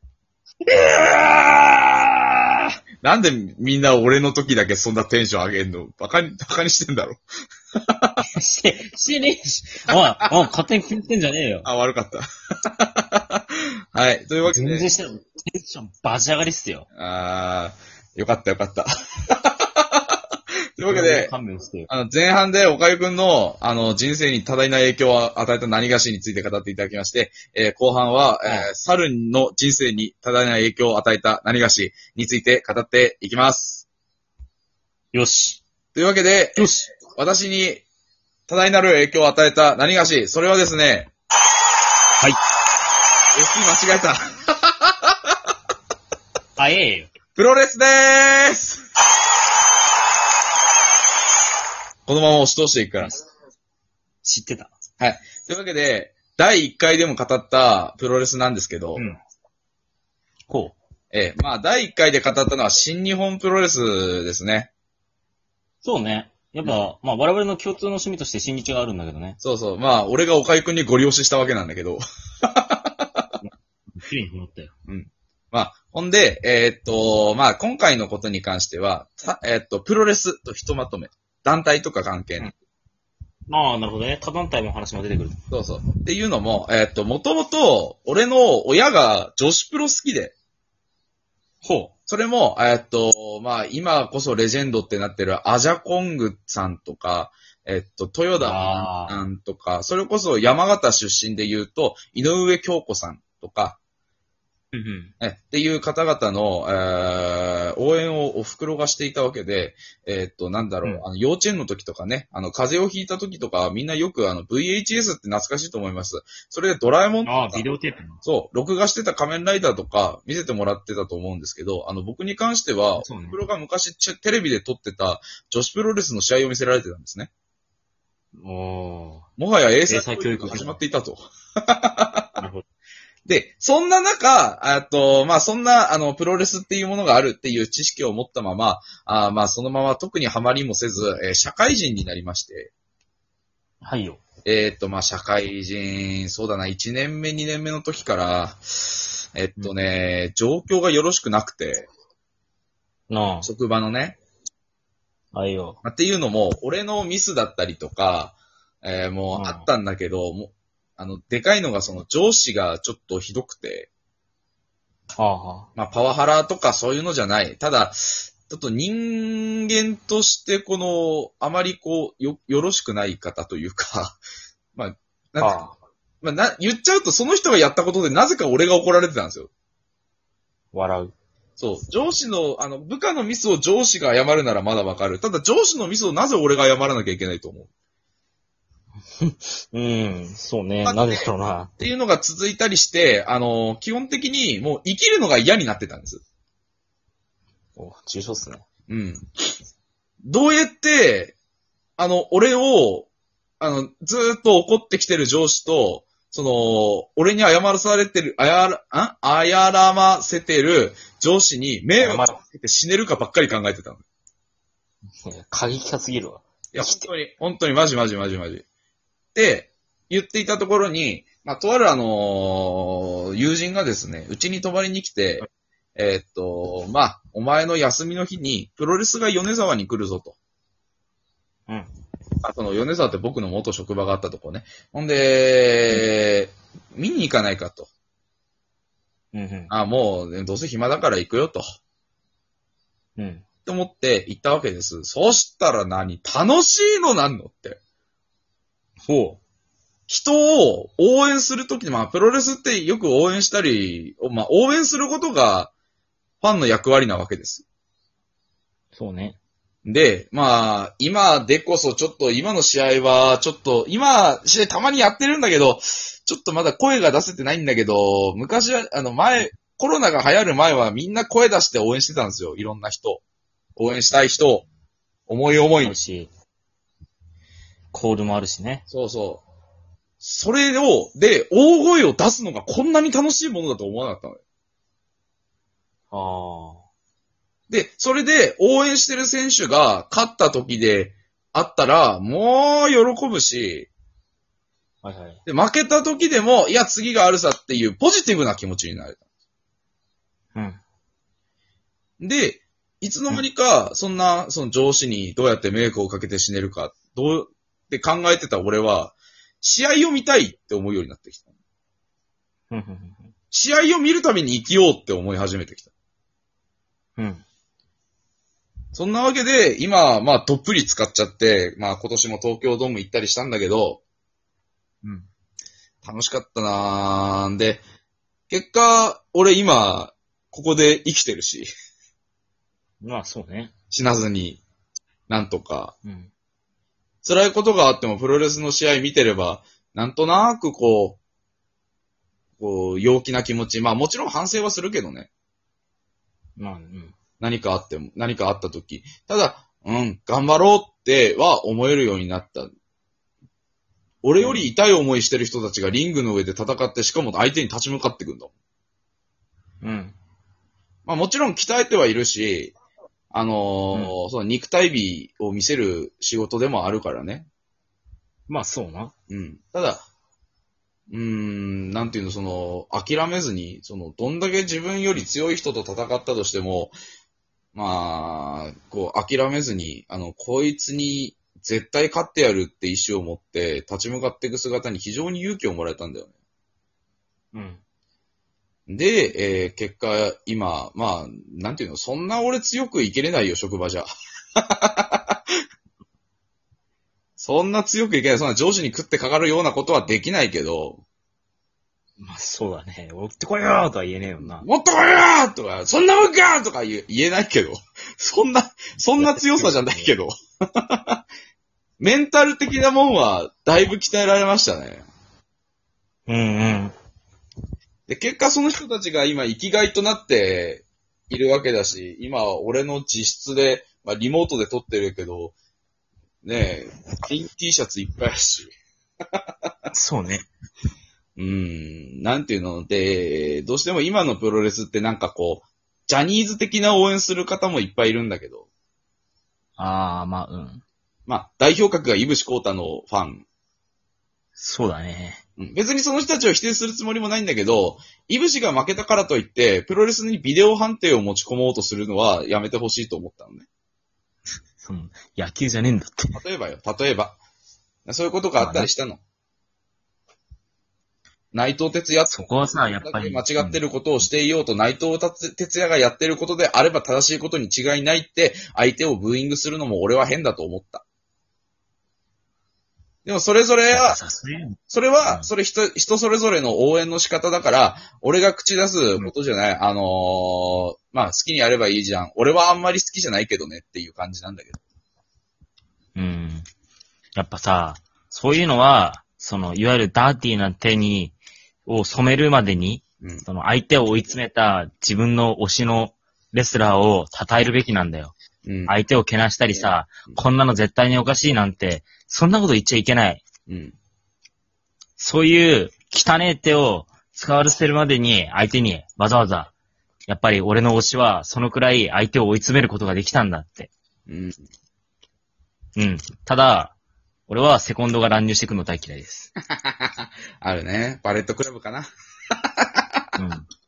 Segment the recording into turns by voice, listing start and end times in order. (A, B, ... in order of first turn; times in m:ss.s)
0:00.6-0:02.6 A
0:03.0-0:07.2 B
0:07.8-0:08.2 B
0:08.4-0:11.7 A
0:11.6-0:14.9 B
0:14.4-0:16.9 A
0:17.0-0:20.1 B
0:20.8-0:21.3 B
0:20.9-0:21.9 A
0:21.9-0:33.9 B
0:28.4-0:28.7 A
0:35.1-0:35.6 A
0:35.9-0:37.8 B
0:36.6-0:37.0 A
0:38.5-0:41.1 B
0:43.4-0:45.3 B
0:46.6-0:47.1 A
0:47.4-0:48.8 B
0:52.1-0:53.1 B
0:54.2-0:54.7 A
0:55.0-0:59.0 B
1:00.5-1:00.8 A
1:01.1-1:04.7 B
1:05.8-1:09.4 A
1:09.4-1:13.3 B
1:13.4-1:14.7 A
1:14.9-1:22.5 B
1:23.5-1:25.4 A
1:25.5-1:30.3 B
1:31.6-1:31.9 A
1:32.1-1:43.8 B
1:38.4-1:39.2 A
1:44.7-1:45.1 A
1:45.2-1:57.7 B
1:57.2-1:58.2 A
1:58.2-2:07.3 B
2:03.0-2:03.4 A
2:08.4-2:09.3 A
2:09.4-2:12.4 B
2:09.9-2:10.8 A
2:12.4-2:12.6 A
2:13.3-2:22.7 B
2:23.8-2:24.2 A
2:24.4-2:31.9 B
2:33.1-2:33.5 A
2:33.4-2:34.2 B
2:35.3-2:35.8 A
2:35.8-2:43.9 B
2:39.3-2:39.7 A
2:45.2-2:45.7 A
2:45.8-2:54.2 B
2:54.8-2:55.6 B
2:55.4-2:55.8 A
2:56.2-2:59.5 B
3:00.7-3:01.2 A
3:01.6-3:07.7 B
3:09.2-3:11.7 A
3:10.8-3:16.2 B
3:17.8-3:18.6 A
3:18.9-3:19.2 B
3:20.2-3:21.4 B
3:22.0-3:23.1 B
3:23.6-3:34.0 B
3:32.0-3:32.4 A
3:35.2-3:37.1 A
3:36.7-3:38.6 B
3:39.4-3:45.4 B
3:46.0-3:50.4 B
3:52.4-3:57.9 B
3:59.3-3:59.7 A
3:59.7-4:01.6 B
4:03.2-4:03.5 A
4:03.6-4:07.8 B
4:09.0-4:09.4 A
4:10.1-4:15.7 B
4:16.4-4:17.6 B
4:19.0-4:19.4 A
4:19.8-4:33.2 B
4:33.8-4:34.7 B
4:35.3-4:36.0 B
4:35.8-4:36.3 A
4:37.9-4:38.8 A
4:38.9-4:39.4 B
4:40.2-4:44.4 B
4:46.1-4:46.8 A
4:47.7-4:53.9 B
4:55.0-4:55.4 A
4:55.5-4:59.2 B
5:00.6-5:00.8 A
5:02.2-5:11.4 B
5:12.7-5:13.3 A
5:13.5-5:15.9 B
5:17.2-5:17.4 A
5:18.9-5:24.0 B
5:26.0-5:27.8 B
5:28.5-5:31.7 B
5:33.0-5:33.7 A
5:33.9-5:34.6 B
5:35.3-5:35.9 B
5:36.0-5:36.3 A
5:37.2-5:41.2 B
5:42.6-5:45.3 B
5:46.6-5:47.2 A
5:47.4-5:52.7 B
5:54.2-5:58.5 B
5:54.4-5:54.7 A
5:59.8-6:00.2 A
6:01.1-6:02.8 B
6:03.3-6:07.5 B
6:08.5-6:09.1 A
6:09.3-6:10.0 B
6:11.1-6:17.0 B
6:17.7-6:26.3 B
6:27.5-6:27.8 A
6:28.9-6:35.6 B
6:37.4-6:41.0 B
6:42.2-6:44.7 A
6:44.6-6:51.2 B
6:49.2-6:50.1 A
6:52.0-6:55.0 B
6:56.3-6:56.9 A
6:58.1-7:05.6 B
7:06.4-7:08.7 B
7:09.9-7:10.5 A
7:11.4-7:18.7 B
7:19.8-7:20.8 A
7:21.3-7:23.4 B
7:24.6-7:25.4 A
7:25.6-7:33.7 B
7:34.8-7:36.4 A
7:36.4-7:37.4 B
7:38.1-7:39.2 B
7:38.6-7:38.9 A
7:41.5-7:51.0 B
7:42.3-7:43.8 A
7:53.2-7:54.2 B
7:53.9-7:55.5 A
7:54.9-8:04.8 B
8:06.2-8:06.7 A
8:07.4-8:18.3 A
8:18.6-8:19.0 B
8:18.9-8:23.5 A
8:19.8-8:20.4 B
8:23.7-8:24.0 B
8:25.2-8:29.7 A
8:30.3-8:33.9 A
8:34.3-8:34.6 B
8:36.0-8:37.0 A
8:37.5-8:39.5 A
8:39.6-8:42.1 B
8:42.6-8:43.2 B
8:43.4-8:43.7 A